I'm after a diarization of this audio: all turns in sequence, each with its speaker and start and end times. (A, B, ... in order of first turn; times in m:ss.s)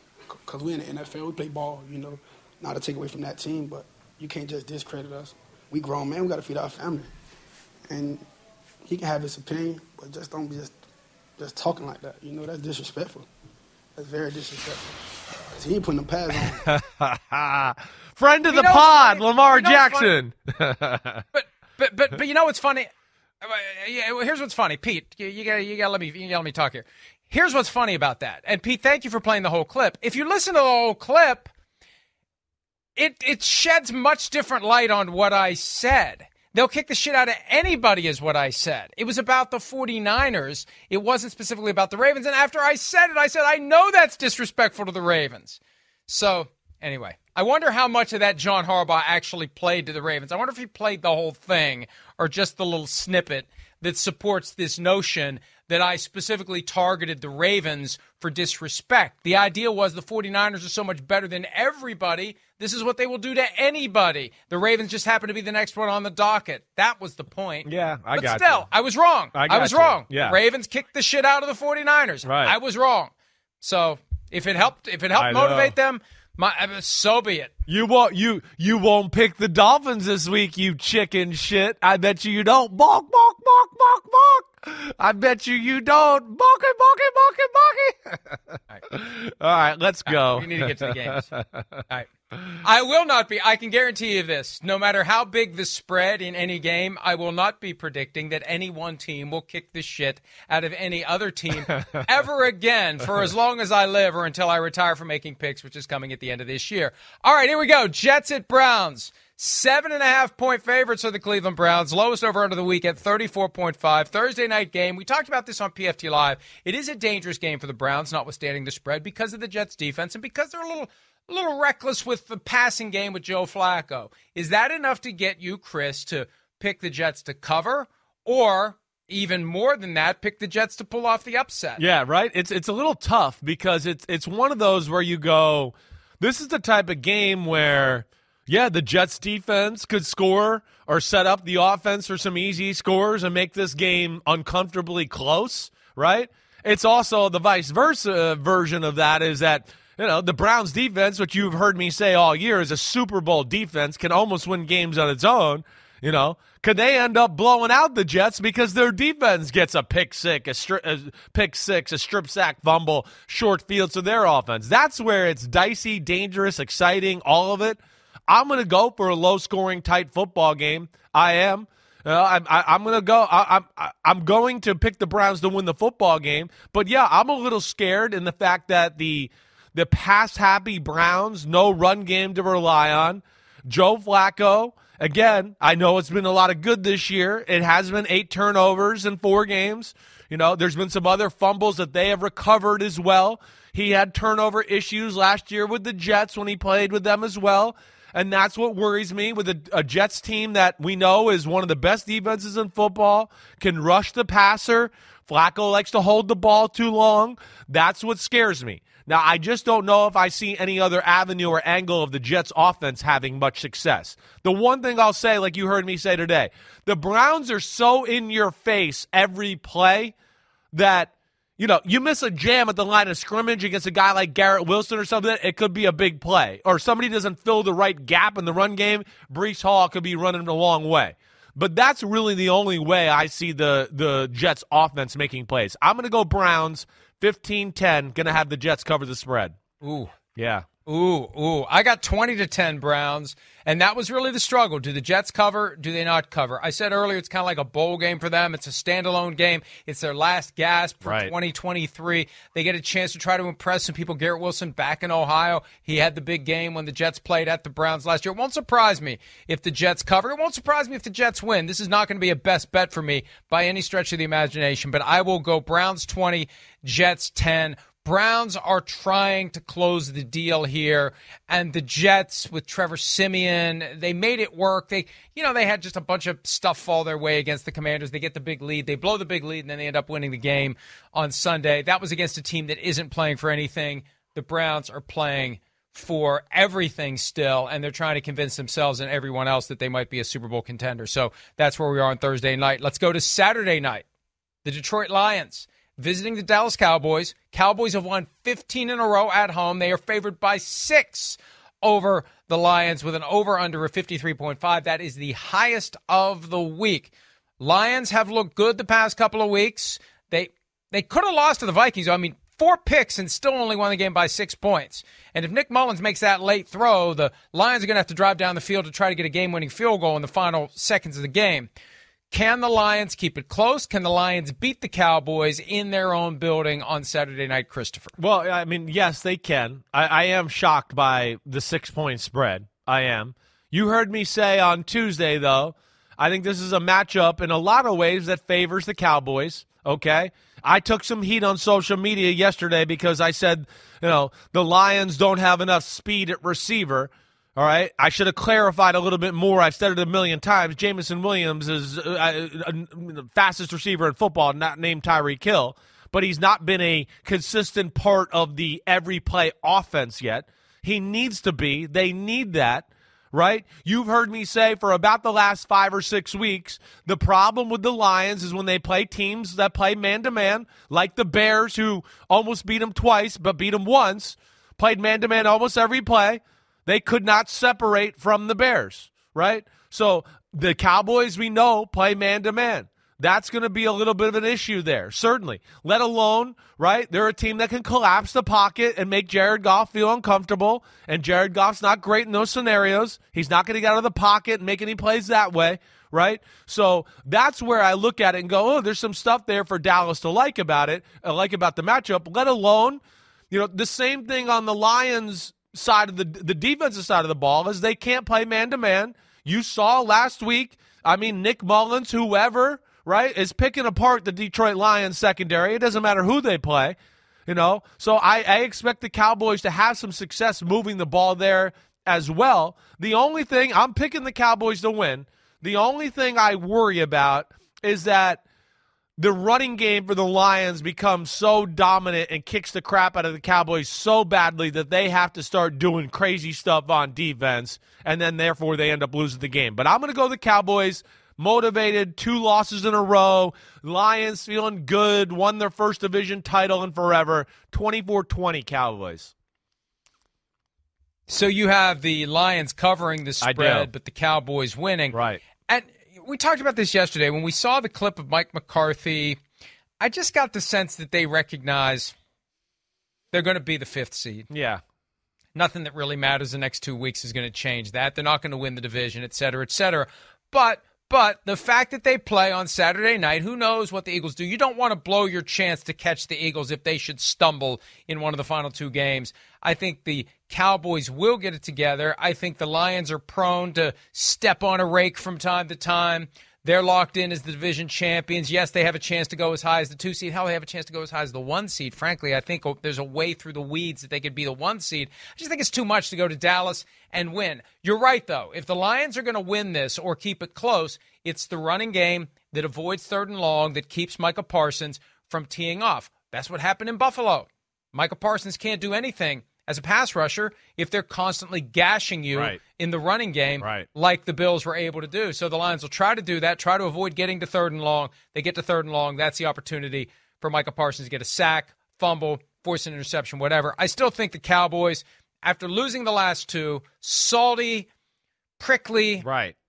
0:00.3-0:07.1 A
0:07.9-0:08.2 A
0:08.8-0:10.8 A
0:11.4-0:13.3 A
0:14.0-0:16.6 A
0:16.6-0:21.2 B
0:18.5-0:20.1 C
0:21.3-0:22.9 C
0:23.4-0:31.5 C
0:33.0-1:17.5 C
1:07.6-1:08.6 B
1:09.3-1:10.4 B
1:12.2-1:12.5 B
1:15.1-1:15.7 B
1:17.7-1:28.4 B
1:28.9-1:31.8 B
1:30.0-1:31.3 C
1:31.9-2:11.8 C
2:11.8-3:40.1 B
3:40.7-3:59.6 B
3:59.8-4:00.1 C
4:00.4-4:00.7 B
4:00.8-4:54.0 C
4:11.0-4:11.3 B
4:54.6-5:21.7 C
5:22.3-5:28.1 C
5:28.2-7:08.4 B
7:09.2-7:29.3 B
7:31.3-7:39.4 C
7:33.4-7:33.9 B
7:35.1-7:35.4 B
7:40.0-7:42.1 C
7:43.3-7:44.5 C
7:44.5-7:44.8 B
7:45.5-8:47.9 C
8:32.3-8:32.6 B
8:33.6-8:33.9 B
8:48.6-8:49.2 C
8:49.2-8:49.5 B